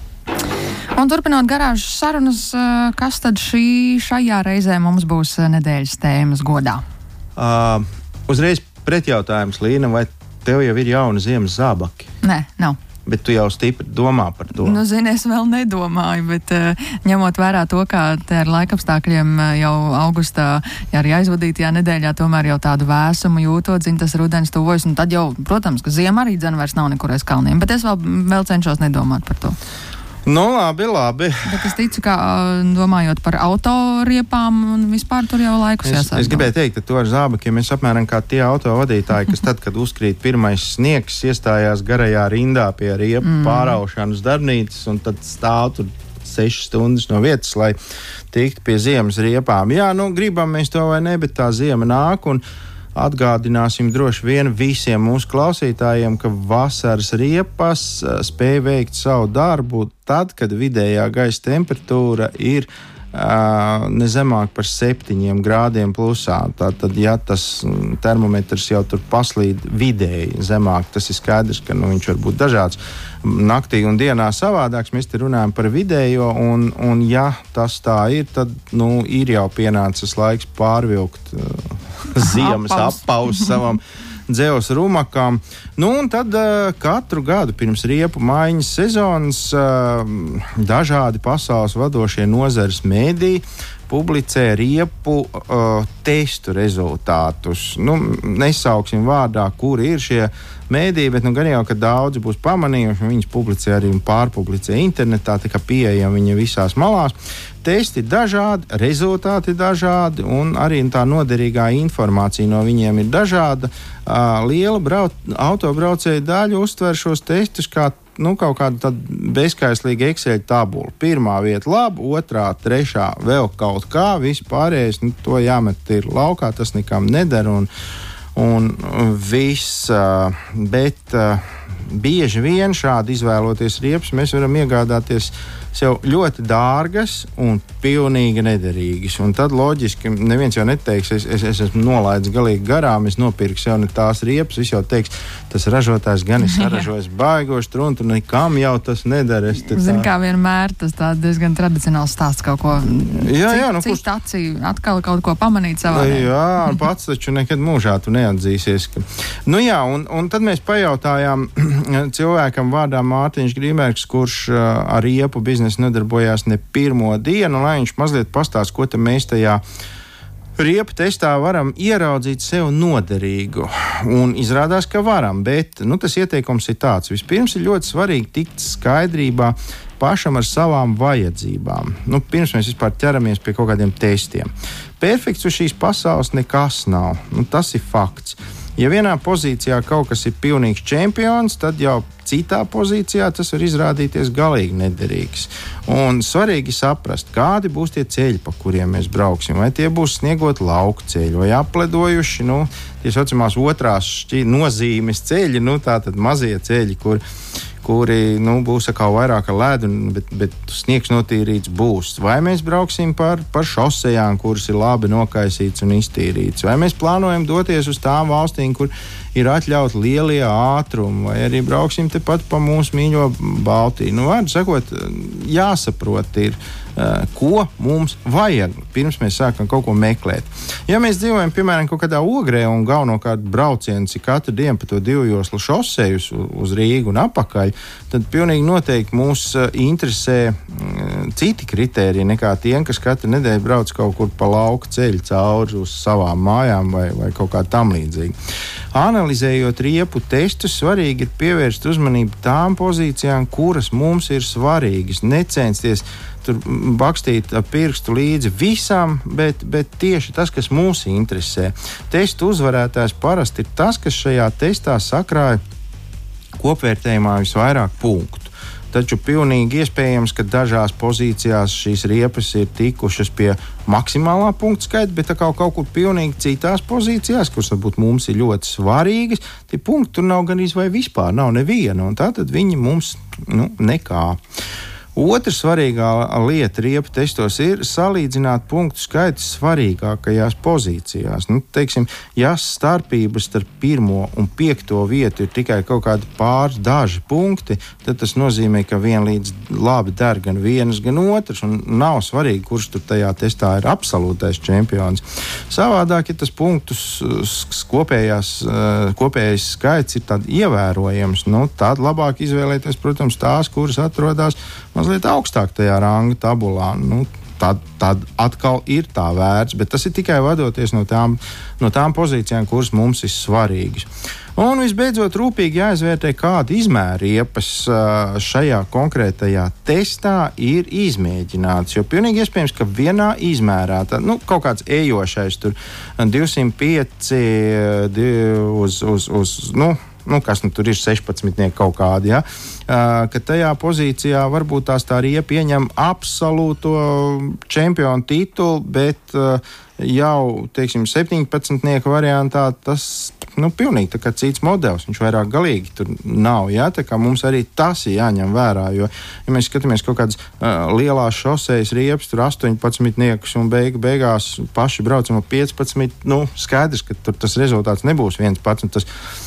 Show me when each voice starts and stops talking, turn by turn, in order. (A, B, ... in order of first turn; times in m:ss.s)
0:01.0-0:06.8 A
0:07.4-0:12.1 B
0:12.2-0:12.8 A
0:13.1-0:14.8 B
0:14.6-0:29.6 A
0:30.3-0:31.7 B
0:31.4-0:36.5 A
0:35.8-0:47.8 B
0:43.2-0:43.8 A
0:48.3-0:52.4 B
0:53.0-2:07.7 B
1:22.2-1:23.5 A
2:08.4-2:30.1 B
2:26.5-2:26.8 A
2:29.6-2:36.3 A
2:33.1-2:34.0 B
2:35.9-2:49.6 B
2:50.6-3:27.2 B
3:27.8-4:08.4 B
4:08.9-4:25.6 B
4:26.6-4:44.4 B
4:45.2-6:09.1 B